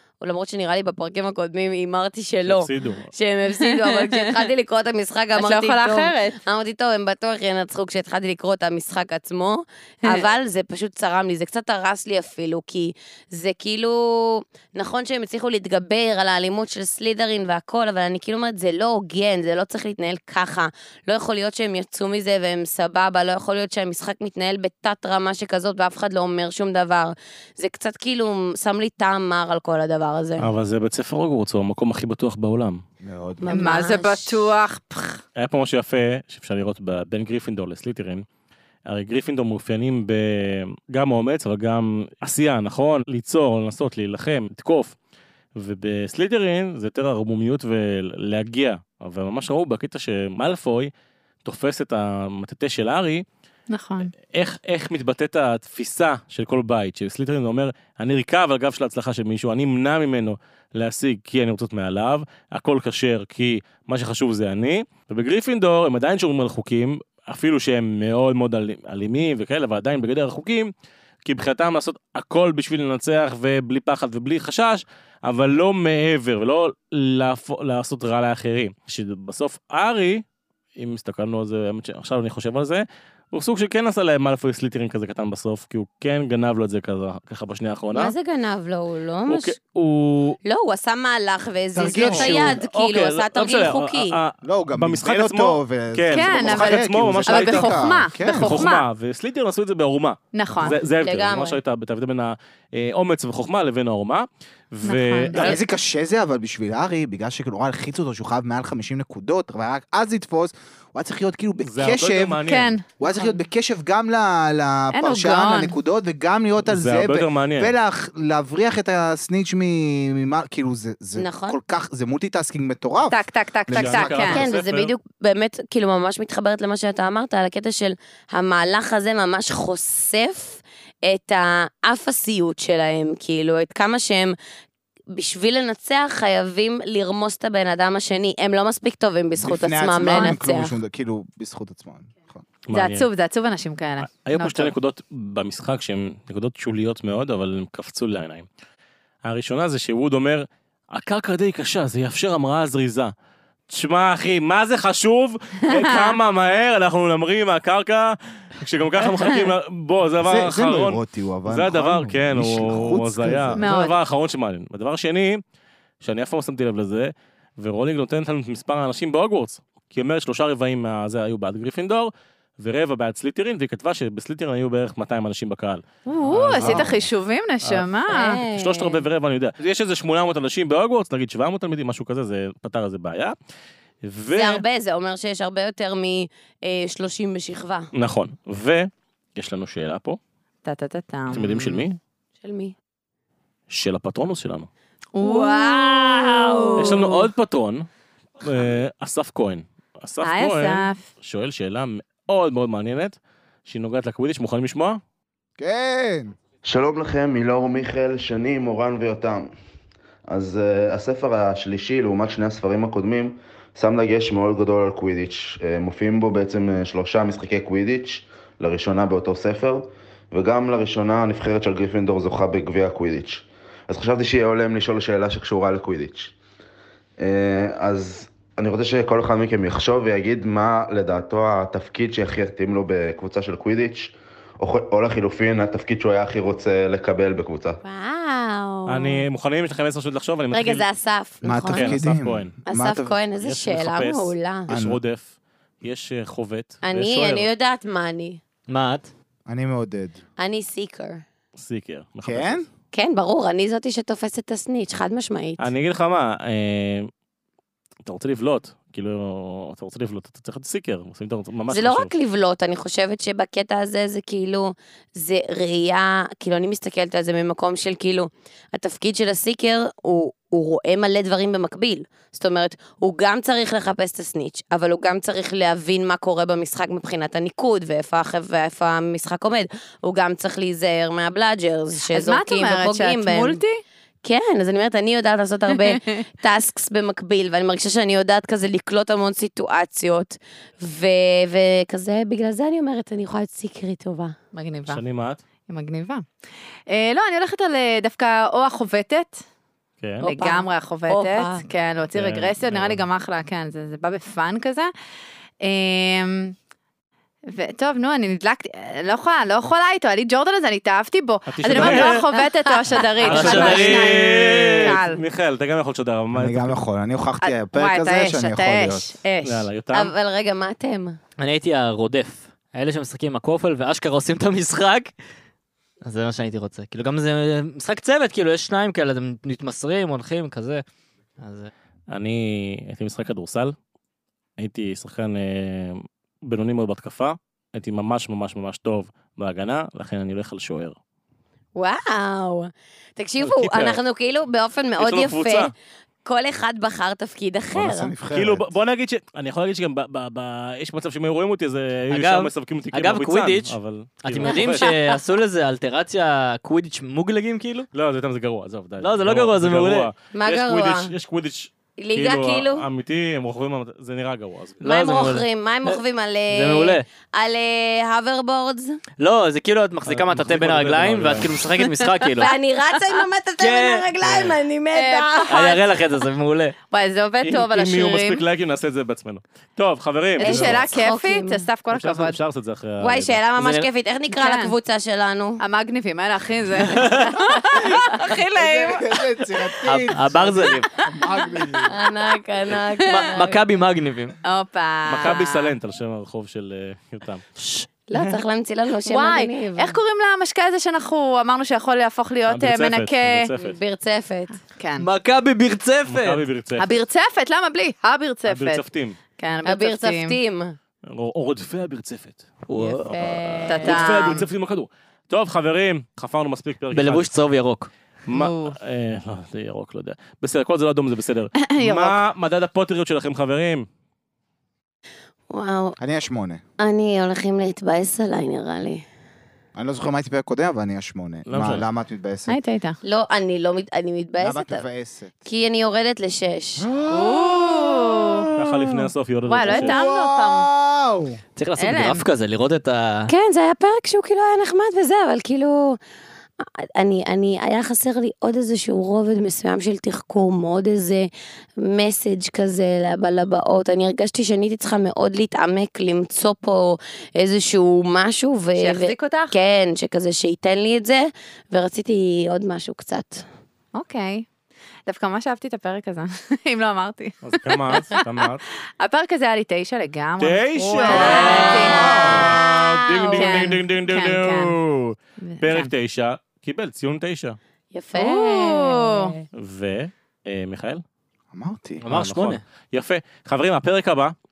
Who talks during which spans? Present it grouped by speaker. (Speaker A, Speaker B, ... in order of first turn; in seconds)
Speaker A: 0.2-30.5, 33.4-34.4, 87.9-89.5, 90.5-94.2, 101.0-101.6, 121.2-121.6, 124.3-134.4, 135.1-140.7, 178.1-179.1, 184.3-187.9, 192.4-192.7, 195.2-197.2, 237.8-239.2, 240.5-242.1, 242.7-244.7, 246.8-248.4, 250.4-251.2, 252.9-255.7, 261.7-283.6, 284.2-294.4, 300.2-301.7, 311.8-313.1, 319.9-321.2, 341.8-345.7, 346.2-348.1, 354.4-355.2, 360.3-361.1, 362.0-362.9, 364.8-369.0, 372.3-375.9, 380.5-381.7, 383.0-385.6, 391.9-393.6, 398.1-400.0, 403.6-404.5, 409.6-410.8, 412.9-414.4, 425.5-426.0, 426.8-429.0, 433.0-434.9, 435.5-436.9, 443.3-446.0, 446.6-463.4, 471.0-473.7, 477.9-479.4
Speaker B: 2.4-3.1, 30.4-32.8, 35.4-38.2, 38.9-45.0, 45.6-50.9, 51.5-53.2, 54.3-70.7, 71.2-80.2, 80.8-88.1, 89.3-90.4, 91.9-105.6, 111.6-112.8, 116.6-117.7, 123.7-124.9, 142.7-143.1, 144.0-148.5, 149.2-153.1, 153.7-165.4, 166.0-177.1, 177.6-183.4, 184.0-184.6, 187.9-190.2, 191.3-192.0, 193.7-194.7, 196.8-197.9, 198.4-205.0, 238.9-240.8, 241.7-242.5, 243.4-247.5, 251.6-252.7, 255.6-257.1, 258.0-262.1, 294.9-295.4, 302.1-303.0, 311.5-312.2, 313.2-316.7, 319.4-320.1, 332.1-333.8, 334.6-341.0, 343.4-344.0, 345.0-345.7, 348.3-354.9, 357.9-364.8, 370.1-371.8, 377.4-380.8, 381.9-383.4, 395.1-397.6, 402.5-403.8, 406.1-407.0, 408.4-409.2, 411.1-417.3, 418.3-423.9, 431.5-431.9, 438.6-440.0, 467.4-468.6, 470.4-477.6, 479.5-481.0, 482.1-484.4
Speaker C: 3.6-4.4, 5.4-6.4, 33.5-35.2, 53.7-54.1, 96.1-98.9, 100.3-100.8, 104.8-105.6, 112.4-113.4, 114.9-115.8, 123.1-124.4, 142.7-144.7, 155.7-156.2, 163.6-164.0, 176.1-178.4, 190.7-191.8, 195.1-197.3, 200.2-201.1, 282.1-283.8, 285.8-286.2, 294.5-295.0, 295.7-296.2, 296.9-299.4, 300.2-304.9, 305.6-306.6, 307.5-315.2, 317.4-319.7, 374.9-375.5, 376.9-378.4, 380.4-382.4, 384.3-384.7, 385.6-389.4, 394.4-395.7, 399.1-403.5, 404.6-405.1, 406.8-408.9, 409.4-410.4, 413.7-414.5, 418.3-418.8, 421.6-422.2, 432.5-433.0, 437.1-438.5, 439.5-440.7, 441.8-442.2, 458.8-459.5, 463.9-464.5, 465.1-468.2, 469.0-472.6, 473.3-474.8, 475.4-475.9, 478.1-479.4
Speaker D: 33.0-33.8, 91.8-92.6, 94.4-98.7, 105.3-124.5, 139.4-142.4, 160.2-163.7, 205.6-206.4, 241.4-243.2, 244.7-245.0, 249.5-250.2, 252.2-252.7, 316.3-319.2, 347.7-348.7, 380.5-380.9, 388.5-391.9, 426.0-426.6, 429.8-432.6, 434.4-435.4, 436.8-439.1, 439.7-441.4, 471.8-472.6, 481.5-482.0
Speaker E: 206.7-209.5, 210.3-226.3, 227.2-237.8
Speaker F: 248.7-249.1, 313.3-314.2, 321.4-325.1, 326.0-330.8, 331.4-331.7, 352.1-357.9, 359.0-360.1, 364.8-367.1, 369.2-372.5, 373.6-374.5, 375.5-376.8, 383.6-383.9, 386.9-387.2, 389.9-390.9, 393.1-394.4, 397.7-398.4, 405.0-406.4, 412.7-413.1, 416.9-417.9, 441.6-443.3, 482.0-482.6